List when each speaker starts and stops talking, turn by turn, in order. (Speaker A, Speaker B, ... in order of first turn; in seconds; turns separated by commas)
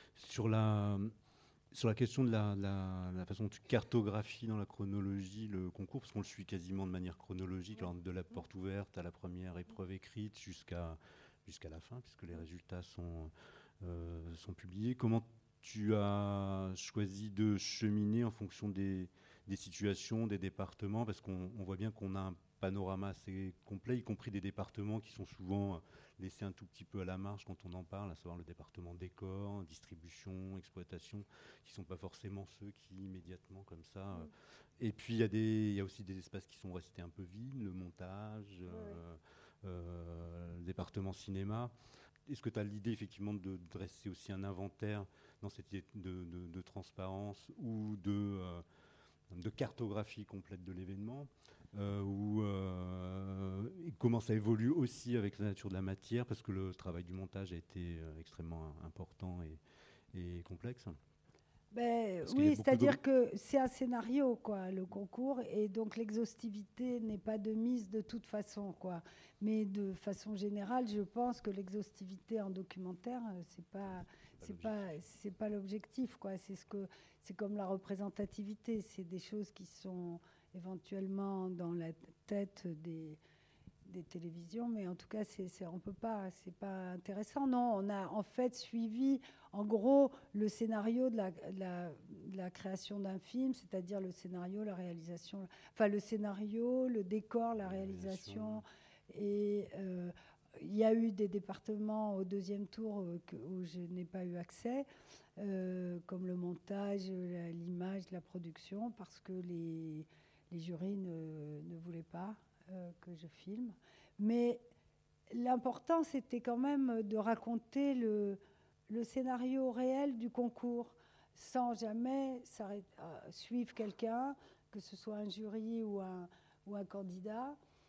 Speaker A: 0.1-1.1, Speaker A: 1.7-13.3, Speaker A: 13.8-41.7, Speaker B: 38.7-39.0, Speaker A: 42.3-48.6, Speaker A: 49.3-59.6, Speaker A: 60.1-61.0, Speaker B: 61.7-83.2, Speaker A: 62.2-63.0, Speaker A: 74.4-75.0, Speaker B: 83.9-104.9, Speaker A: 97.6-98.6, Speaker B: 105.4-114.6, Speaker B: 115.3-127.6